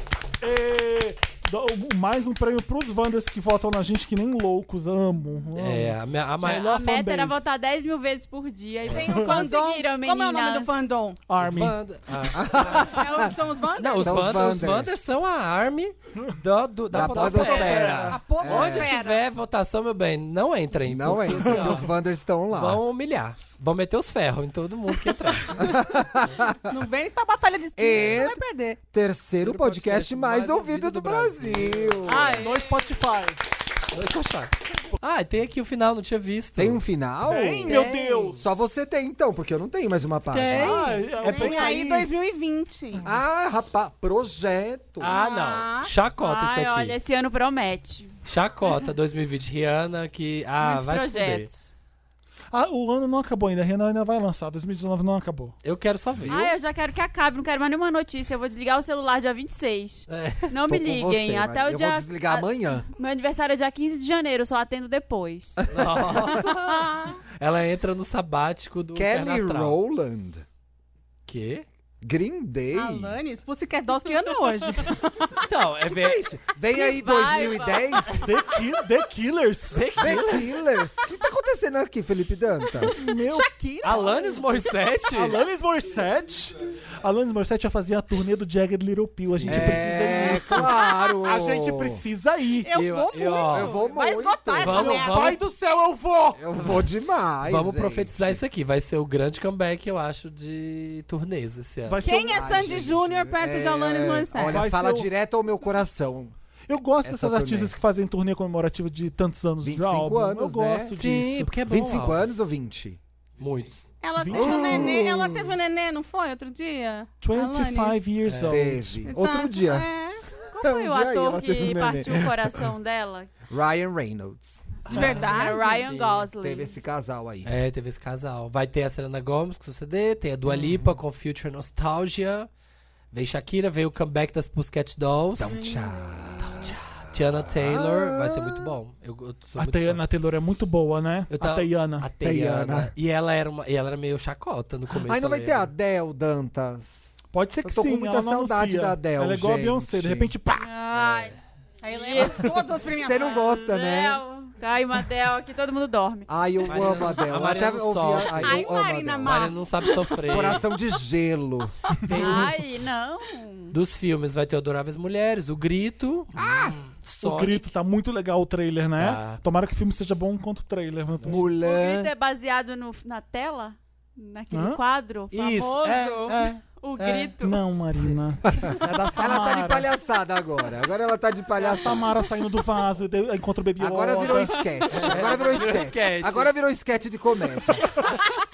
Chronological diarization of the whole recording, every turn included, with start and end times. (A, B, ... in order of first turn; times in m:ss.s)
0:00.4-0:07.4 A
0:05.5-0:06.7 B
0:06.4-0:10.9 C
0:08.8-0:11.2 D
0:09.0-0:09.4 A
0:11.3-0:11.8 A
0:11.4-0:13.0 B
0:12.3-0:13.3 E
0:12.7-0:14.6 D
0:13.8-0:21.9 B
0:14.0-0:15.2 E
0:16.9-0:19.0 E
0:17.0-0:18.2 A
0:17.3-0:19.2 D
0:20.8-0:22.8 E
0:21.3-0:21.8 A
0:22.5-0:25.8 B
0:25.6-0:26.7 E
0:26.7-0:28.8 D
0:27.8-0:32.4 E
0:27.9-0:28.2 B
0:29.4-0:32.2 B
0:32.0-0:32.9 C
0:32.4-0:33.4 A
0:33.9-0:36.8 B
0:36.6-0:37.9 E
0:37.2-0:38.5 A
0:37.6-0:38.4 B
0:38.4-0:40.9 E
0:40.3-0:41.6 B
0:40.5-0:43.0 D
0:40.6-0:42.1 A
0:43.0-0:45.2 E
0:45.0-0:47.0 B
0:45.1-0:45.9 D
0:46.2-0:48.1 C
0:48.2-0:51.5 B
0:50.6-0:51.7 C
0:52.5-0:55.6 A
0:55.6-0:56.5 B
0:56.3-1:05.6 C
1:00.1-1:00.5 B
1:00.6-1:02.9 E
1:05.7-1:06.7 B
1:05.8-1:06.5 E
1:06.4-1:07.1 C
1:07.4-1:09.8 B
1:08.9-1:10.4 E
1:11.3-1:11.6 B
1:12.0-1:13.2 E
1:12.7-1:15.3 D
1:15.4-1:16.4 B
1:15.9-1:18.3 E
1:16.7-1:18.3 C
1:18.1-1:20.0 A
1:19.7-1:20.5 B
1:20.0-1:23.0 E
1:22.8-1:24.7 D
1:22.8-1:23.5 A
1:23.8-1:25.4 B
1:25.1-1:32.7 A
1:29.3-1:29.8 B
1:29.4-1:32.0 E
1:29.8-1:31.3 D
1:32.6-1:35.4 D
1:32.7-1:33.8 B
1:33.4-1:35.0 E
1:34.6-1:35.4 B
1:34.7-1:36.6 A
1:36.4-1:38.4 E
1:37.4-1:42.8 B
1:41.8-1:42.7 A
1:42.0-1:44.7 D
1:42.1-1:46.3 E
1:44.5-1:45.1 A
1:46.7-1:51.6 A
1:47.0-1:47.8 E
1:49.6-1:51.0 E
1:50.9-1:52.3 B
1:51.7-1:53.0 E
1:53.4-1:53.9 B
1:54.0-1:58.1 D
1:54.2-1:55.0 A
1:54.3-1:55.6 E
1:57.2-1:59.1 A
1:58.2-1:58.6 B
1:58.4-1:59.9 E
1:59.0-2:00.2 D
2:00.5-2:03.3 C
2:00.6-2:02.5 E
2:03.5-2:04.8 E
2:04.8-2:06.3 B
2:04.9-2:05.8 D
2:04.9-2:05.3 A
2:05.1-2:06.7 C
2:06.4-2:07.5 E
2:07.4-2:12.5 B
2:13.1-2:15.6 B
2:15.4-2:16.8 E
2:15.5-2:16.2 D
2:16.4-2:20.0 B
2:17.4-2:18.7 E
2:19.6-2:22.1 A
2:21.3-2:25.7 B
2:22.2-2:22.9 E
2:25.0-2:26.9 E
2:27.3-2:30.7 A
2:27.6-2:30.3 E
2:30.6-2:31.4 C
2:30.9-2:31.3 B
2:31.8-2:33.5 D
2:31.9-2:32.6 C
2:33.0-2:34.2 E
2:33.2-2:36.3 C
2:36.3-2:39.5 E
2:36.6-2:40.7 B
2:38.4-2:40.3 D
2:40.3-2:41.7 E
2:42.0-2:42.6 B
2:42.1-2:42.4 A
2:42.1-2:43.8 C
2:43.7-2:47.7 B
2:46.4-2:46.7 E
2:47.2-2:51.5 A
2:49.0-2:49.4 B
2:51.2-2:52.1 E
2:51.6-2:57.6 C
2:54.5-2:54.8 A
2:55.3-2:57.3 B
2:57.4-2:59.9 A
2:58.5-3:02.1 E
3:01.6-3:05.1 A
3:03.8-3:07.9 E
3:04.5-3:05.1 C
3:05.0-3:06.5 B